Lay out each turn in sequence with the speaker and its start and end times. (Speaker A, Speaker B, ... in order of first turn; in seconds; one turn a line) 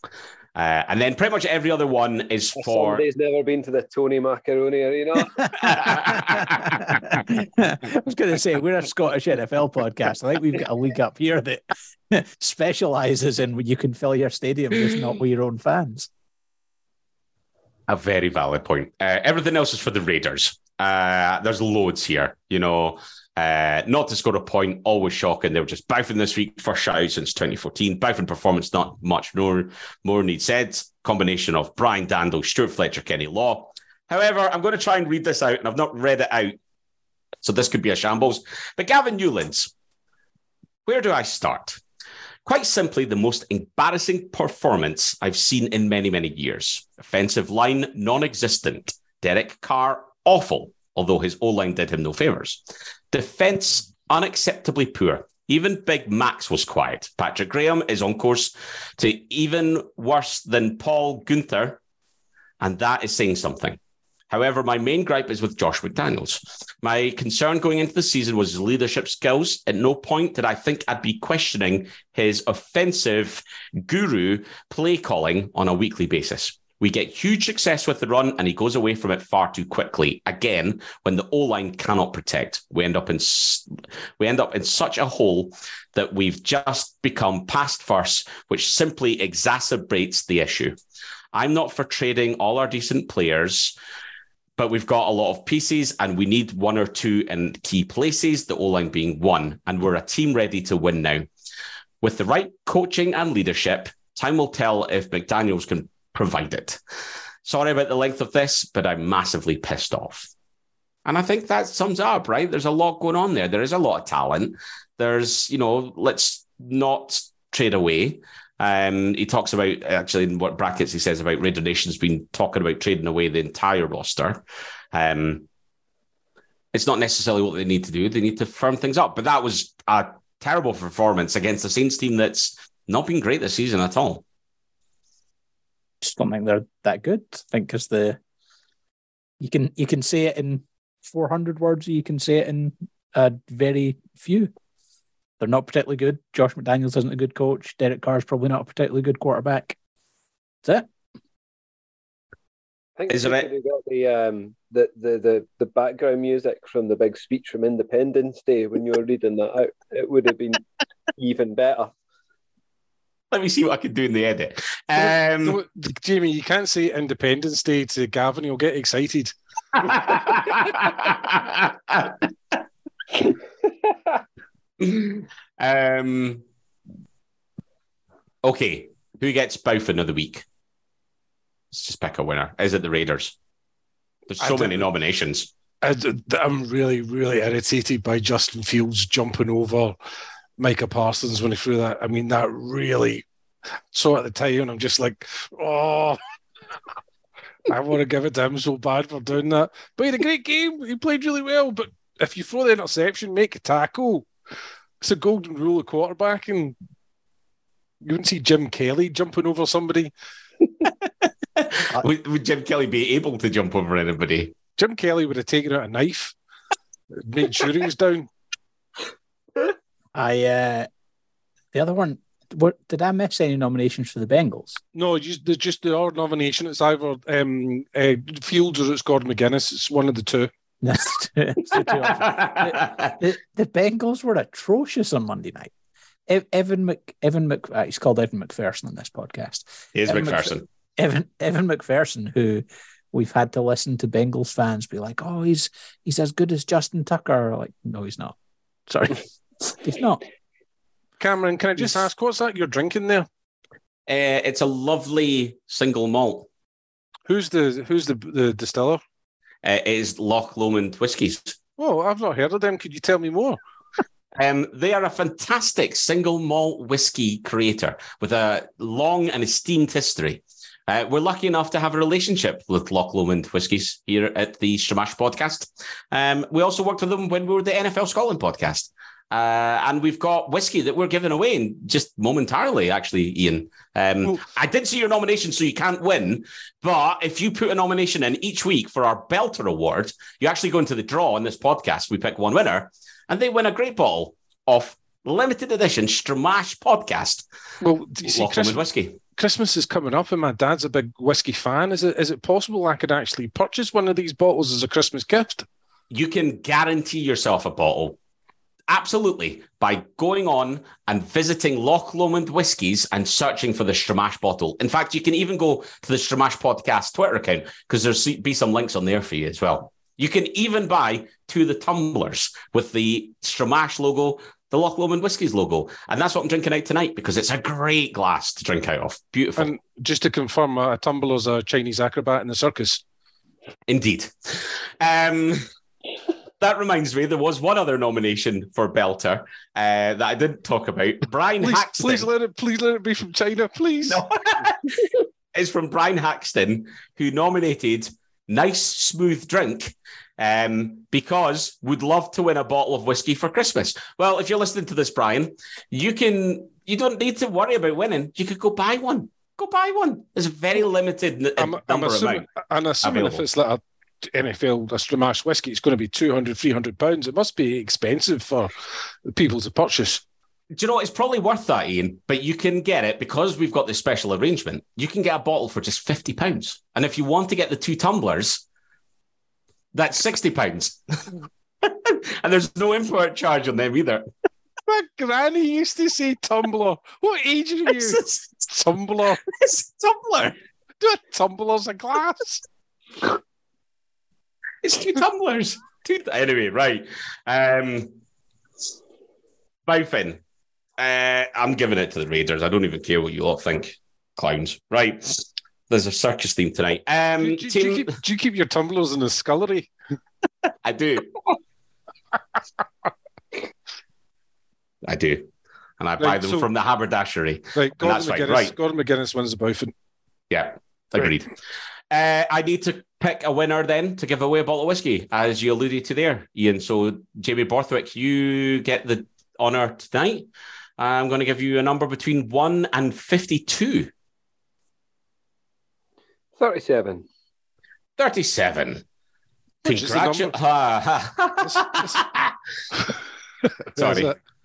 Speaker A: 0.6-3.0
Speaker B: 2.6-5.4
Speaker C: 5.4-16.1
Speaker A: 5.6-6.8
Speaker A: 17.9-36.6
Speaker A: 37.4-39.7
Speaker A: 40.9-41.8
Speaker A: 42.5-61.8
Speaker A: 62.6-63.8
Speaker A: 64.3-83.7
Speaker A: 84.2-90.8
Speaker A: 91.3-93.8
Speaker A: 94.6-101.3
Speaker A: 102.0-106.8
Speaker A: 107.5-110.3
Speaker A: 111.0-125.5
Speaker A: 126.7-134.2
Speaker C: 136.0-138.2
Speaker C: 139.4-144.5
Speaker C: 145.4-149.8
Speaker B: 153.0-160.6
Speaker A: 153.1-153.5
Speaker B: 161.2-161.9
Speaker A: 163.3-165.6
Speaker D: 165.0-169.3
Speaker A: 169.8-172.3
Speaker A: 174.8-176.4
Speaker A: 178.4-180.4
Speaker A: 181.7-183.3
Speaker A: 184.3-185.5
Speaker D: 184.4-184.8
Speaker D: 185.8-190.0
Speaker D: 190.6-193.2
Speaker D: 193.9-196.2
Speaker D: 197.7-204.3
Speaker D: 205.0-206.8
Speaker D: 208.0-210.1
Speaker A: 211.6-214.6
Speaker D: 214.8-216.3
Speaker D: 217.2-218.3
Speaker C: 220.2-220.9
Speaker C: 221.7-224.8
Speaker D: 224.9-230.5
Speaker C: 230.8-235.7
Speaker A: 232.0-233.1
Speaker C: 236.3-248.3
Speaker A: 239.9-240.7
Speaker C: 248.9-250.2
Speaker D: 251.2-253.3
Speaker A: 254.1-256.5
Speaker D: 257.3-259.0
Speaker A: 259.6-261.6
Speaker D: 261.8-263.6
Speaker A: 264.4-297.5
Speaker D: 297.8-298.8
Speaker A: 298.2-299.2
Speaker D: 299.4-305.7
Speaker A: 306.1-308.2
Speaker A: 308.9-329.7
Speaker D: 329.6-333.0
Speaker A: 333.9-335.6
Speaker A: 336.6-342.3
Speaker D: 341.6-344.3
Speaker A: 344.1-362.5
Speaker D: 361.6-368.7
Speaker A: 363.0-363.4
Speaker D: 369.3-370.2
Speaker A: 370.7-378.6
Speaker A: 379.9-384.2
Speaker D: 384.9-389.4
Speaker A: 387.9-388.7
Speaker A: 389.5-390.6
Speaker D: 391.0-392.6
Speaker A: 394.8-398.2
Speaker A: 399.9-400.4
Speaker A: 401.0-408.1
Speaker D: 407.4-409.9
Speaker A: 410.8-411.4
Speaker A: 415.0-418.8
Speaker D: 416.2-416.7
Speaker D: 417.8-419.9
Speaker A: 420.5-421.5
Speaker A: 422.1-434.1
Speaker B: 436.6-437.2
Speaker A: 438.2-439.0
Speaker D: 439.9-440.5
Speaker A: 439.9-442.6
Speaker D: 441.6-442.2
Speaker D: 443.9-444.4
Speaker A: 444.0-444.4